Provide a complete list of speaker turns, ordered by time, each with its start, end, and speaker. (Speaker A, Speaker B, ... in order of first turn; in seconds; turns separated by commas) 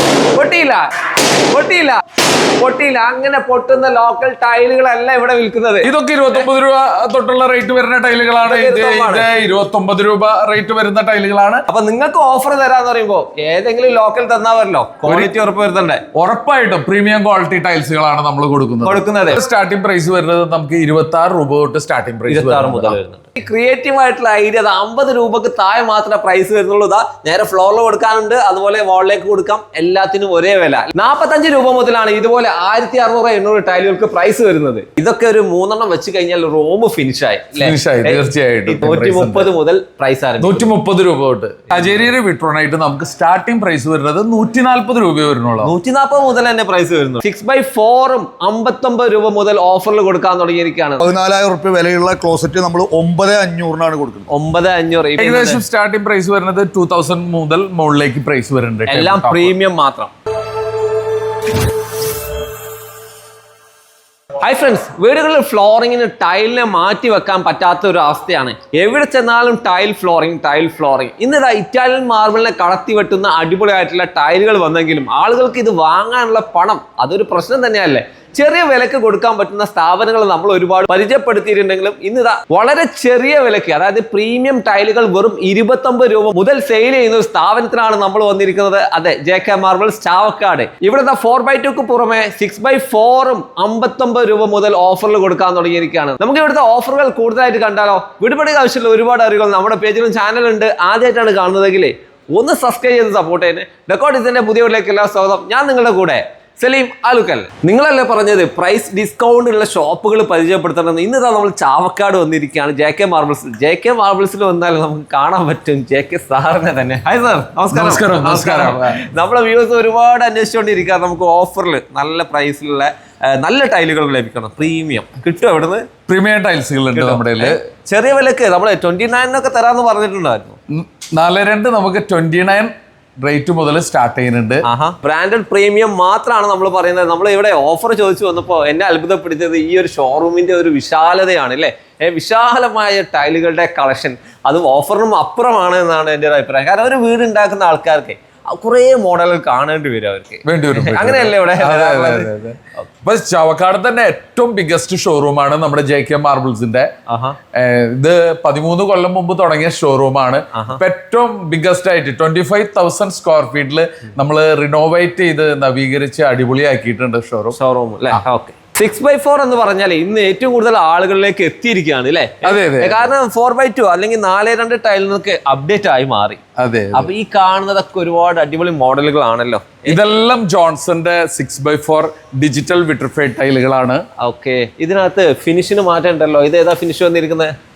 Speaker A: 0.3-0.9, Speaker A: 1.5-2.0, Speaker A: 2.6-6.5, Speaker B: 5.8-11.7, Speaker A: 8.4-9.3, Speaker A: 11.7-16.0, Speaker B: 15.1-15.3, Speaker B: 16.1-23.0, Speaker A: 18.8-19.4, Speaker A: 22.3-40.7, Speaker B: 37.6-39.5, Speaker B: 40.4-45.7, Speaker A: 45.6-51.0, Speaker C: 51.0-54.3, Speaker A: 54.3-55.6, Speaker B: 55.2-59.5, Speaker A: 58.9-60.1, Speaker A: 64.4-125.9, Speaker B: 117.7-119.0, Speaker B: 126.1-127.6, Speaker A: 126.9-130.6, Speaker B: 130.7-134.6, Speaker A: 134.6-152.9, Speaker B: 150.4-156.9, Speaker A: 157.1-157.4, Speaker B: 157.5-167.6, Speaker A: 160.5-160.8, Speaker A: 167.5-176.4, Speaker B: 172.4-173.1, Speaker B: 176.6-177.1, Speaker A: 176.9-180.0, Speaker B: 179.8-184.1, Speaker A: 184.2-187.5